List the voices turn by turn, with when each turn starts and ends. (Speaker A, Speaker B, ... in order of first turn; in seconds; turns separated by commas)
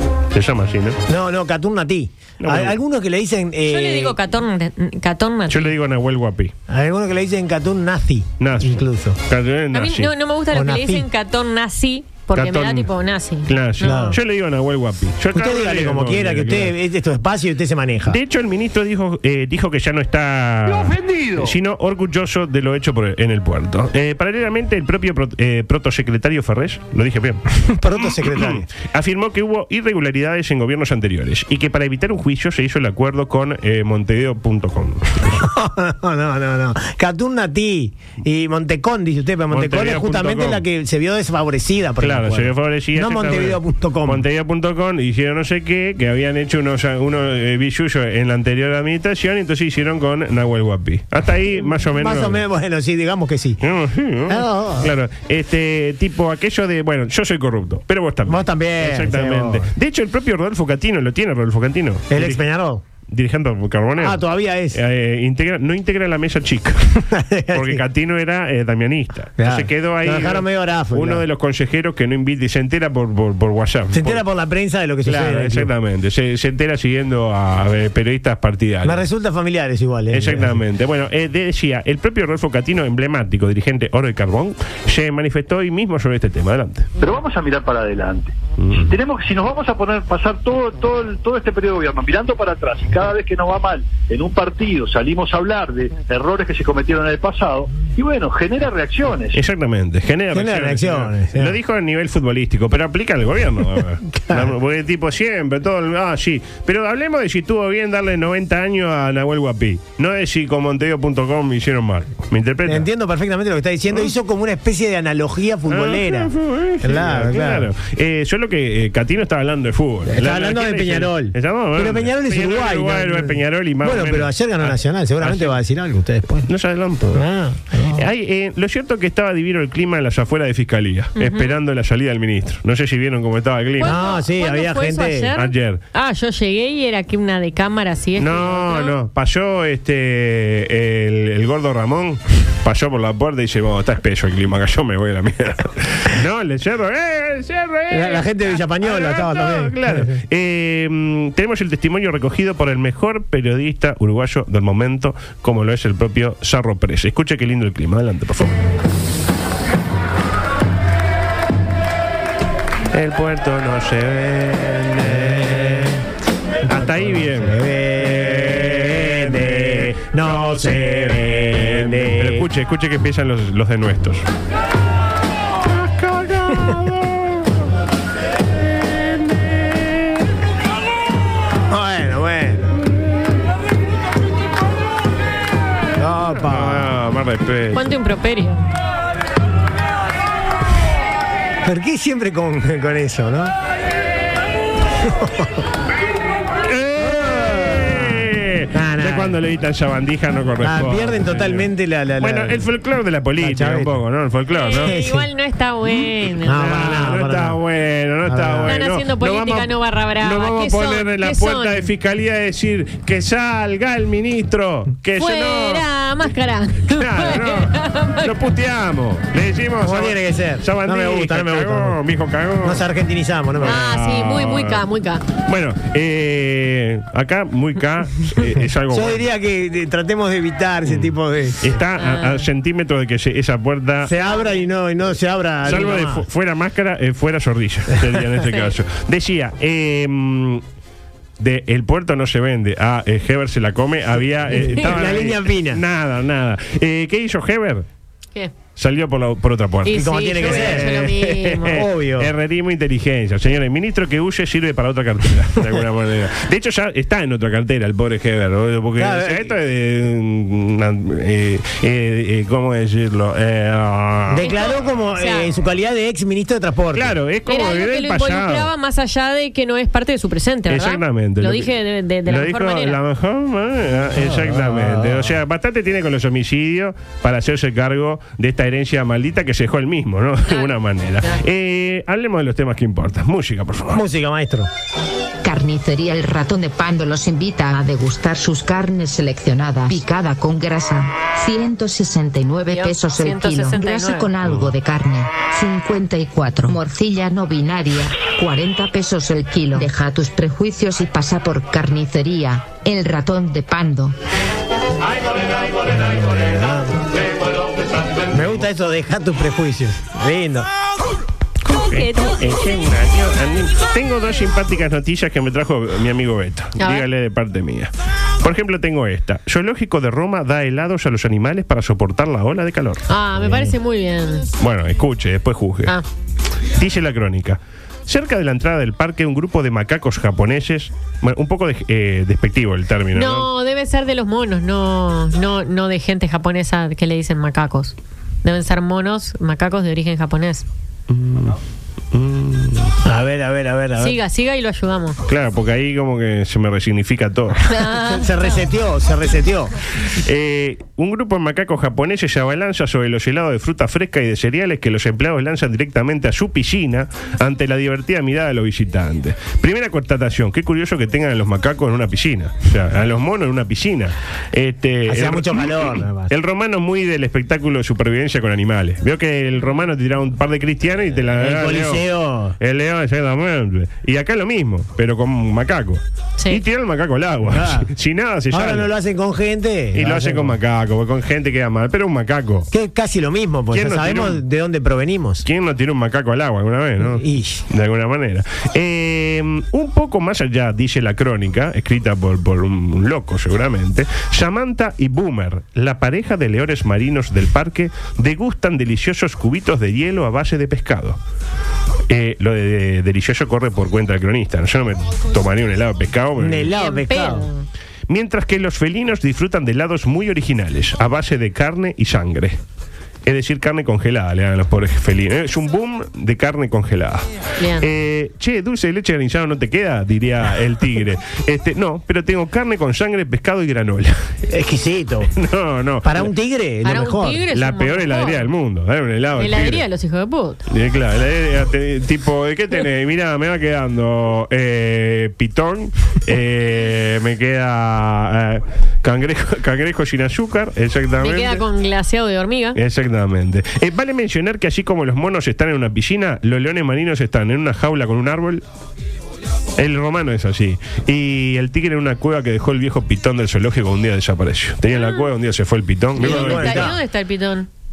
Speaker A: 0.3-1.0, Speaker B: 1.1-4.2, Speaker A: 2.4-2.8, Speaker C: 3.7-5.7, Speaker A: 5.5-6.5, Speaker B: 6.7-9.2, Speaker A: 8.4-10.1, Speaker C: 9.7-14.2, Speaker B: 10.5-11.1, Speaker A: 12.3-12.9, Speaker A: 13.5-16.7, Speaker B: 13.8-14.2, Speaker B: 15.3-18.2, Speaker A: 18.1-35.4, Speaker B: 27.6-28.6, Speaker B: 35.3-44.2, Speaker A: 39.5-40.6, Speaker A: 42.0-52.4, Speaker B: 51.7-53.6, Speaker A: 53.6-62.4, Speaker B: 54.3-54.9, Speaker B: 58.2-59.7, Speaker B: 62.1-62.8, Speaker A: 63.1-74.2, Speaker B: 64.0-64.8, Speaker B: 67.1-67.8, Speaker B: 69.4-71.2, Speaker B: 73.9-75.7, Speaker A: 75.0-79.0, Speaker B: 78.8-80.6, Speaker A: 80.1-86.9, Speaker D: 87.0-99.4, Speaker A: 88.6-88.9, Speaker A: 99.3-112.9, Speaker B: 100.3-101.6, Speaker B: 104.1-104.5, Speaker B: 112.7-117.7, Speaker A: 115.7-125.6, Speaker B: 120.1-126.5, Speaker A: 126.5-127.3, Speaker B: 127.1-128.1, Speaker A: 127.9-134.0, Speaker C: 131.2-131.5, Speaker C: 133.8-138.9, Speaker B: 133.8-135.3, Speaker A: 135.3-135.8, Speaker A: 138.2-158.6, Speaker B: 147.9-150.2, Speaker A: 162.9-166.0, Speaker B: 165.0-166.0, Speaker B: 166.6-172.4, Speaker A: 166.6-174.3, Speaker A: 175.7-177.6, Speaker A: 179.3-179.6, Speaker B: 181.7-182.8, Speaker B: 186.0-186.9, Speaker A: 186.5-187.9, Speaker C: 187.7-188.6, Speaker B: 191.6-193.5, Speaker B: 195.0-195.7, Speaker A: 196.6-201.7, Speaker B: 197.1-199.4, Speaker B: 200.6-202.6, Speaker A: 202.2-204.9, Speaker B: 203.4-204.0, Speaker C: 204.6-207.1, Speaker B: 204.7-205.3, Speaker B: 206.4-207.6, Speaker A: 206.6-215.9, Speaker B: 208.2-208.8, Speaker C: 208.7-211.9, Speaker C: 215.2-218.3, Speaker A: 216.9-222.8, Speaker B: 219.8-222.0, Speaker B: 222.6-223.8, Speaker A: 223.6-224.8, Speaker C: 223.6-225.2, Speaker A: 225.4-229.2, Speaker B: 228.9-231.7, Speaker A: 230.8-234.1, Speaker C: 232.0-232.4, Speaker B: 234.0-236.2, Speaker A: 235.6-240.6, Speaker A: 241.4-247.8, Speaker B: 244.5-245.8, Speaker A: 248.8-264.5, Speaker C: 249.8-251.8, Speaker B: 249.9-252.3, Speaker B: 259.0-259.5, Speaker B: 264.3-267.1, Speaker C: 264.4-265.5, Speaker A: 266.9-268.7, Speaker C: 267.5-273.0, Speaker A: 270.7-271.7, Speaker A: 272.2-284.0, Speaker B: 274.1-275.4, Speaker B: 283.9-284.7, Speaker E: 285.4-304.1, Speaker C: 292.7-294.3, Speaker B: 305.8-307.1, Speaker A: 307.5-308.6, Speaker B: 308.3-310.7, Speaker C: 311.6-312.6, Speaker A: 311.7-323.1, Speaker C: 316.8-317.1, Speaker C: 323.1-324.4, Speaker A: 324.6-325.9, Speaker A: 326.8-333.5, Speaker C: 333.1-340.7, Speaker A: 341.1-341.6, Speaker A: 342.1-342.9, Speaker B: 343.0-344.2, Speaker C: 344.0-345.2, Speaker A: 345.3-347.7, Speaker C: 347.7-348.6, Speaker B: 347.9-349.7, Speaker A: 350.1-372.0, Speaker B: 365.1-366.3, Speaker B: 371.4-372.6, Speaker A: 372.6-378.9, Speaker B: 377.4-377.9, Speaker B: 378.5-380.6, Speaker A: 379.9-382.7, Speaker B: 382.7-385.4, Speaker A: 383.7-384.4, Speaker A: 385.4-401.2, Speaker B: 387.0-387.6, Speaker A: 402.1-406.7, Speaker B: 406.4-407.5, Speaker C: 406.7-407.6, Speaker A: 408.1-412.6, Speaker A: 413.2-417.2, Speaker C: 417.6-417.9, Speaker A: 417.8-424.3, Speaker B: 424.5-425.3, Speaker A: 425.3-426.3, Speaker B: 426.0-427.4, Speaker C: 426.8-428.5, Speaker A: 427.5-429.8, Speaker C: 429.4-430.6, Speaker A: 430.7-441.6, Speaker C: 441.2-442.8, Speaker A: 442.7-448.6, Speaker A: 449.8-456.9, Speaker C: 454.9-455.2, Speaker B: 456.2-457.0, Speaker C: 456.2-457.7